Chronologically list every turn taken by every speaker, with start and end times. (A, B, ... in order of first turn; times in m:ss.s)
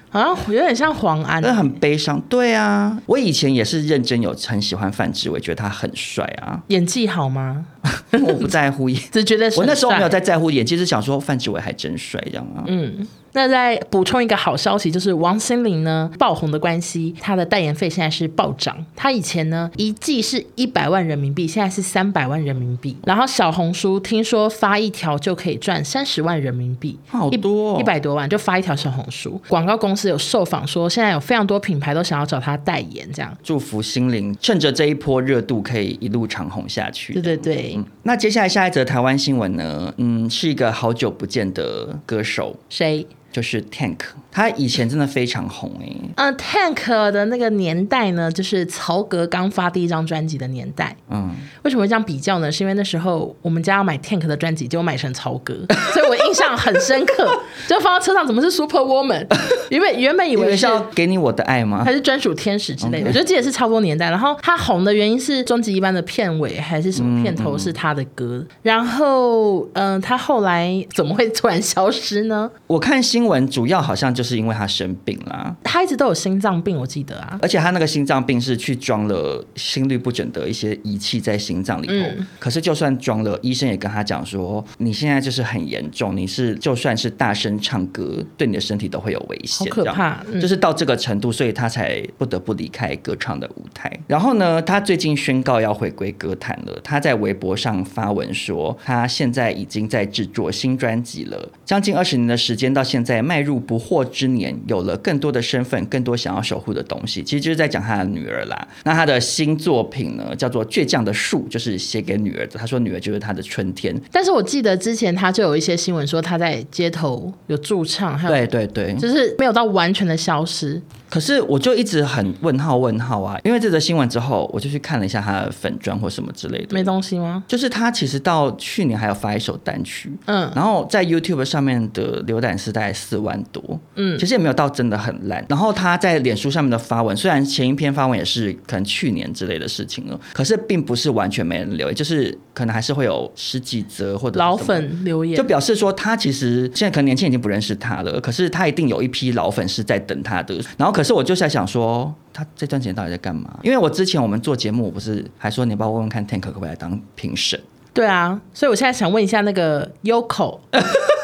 0:00.1-0:01.8 A
0:01.4-0:06.6 B
0:06.7-0:08.5 A
0:07.9-0:12.7 B
0:09.1-0:10.1 A
0:12.6-0:33.4 A
0:27.1-0:27.9 B
0:33.4-0:42.6 B
0:37.1-0:37.8 A
0:42.7-0:43.1 A
0:43.3-0:46.1 B
0:46.2-0:51.0 A
0:51.1-0:51.5 B
0:51.6-1:00.8 A
1:00.4-1:01.9 B
1:01.8-1:12.5 A
1:02.8-1:03.2 B
1:06.9-1:07.8 B
1:12.7-1:15.6 B
1:15.6-1:17.4 A
1:17.4-1:54.0 B
1:21.9-1:22.3 A
1:29.5-1:30.5 A
1:54.1-2:00.8 A
1:58.3-1:59.0 B
2:01.1-2:06.9 B
2:06.7-2:07.4 A
2:07.5-2:37.6 B
2:10.3-2:10.6 A
2:14.0-2:14.2 A
2:24.3-2:25.5 A
2:37.9-2:40.6 A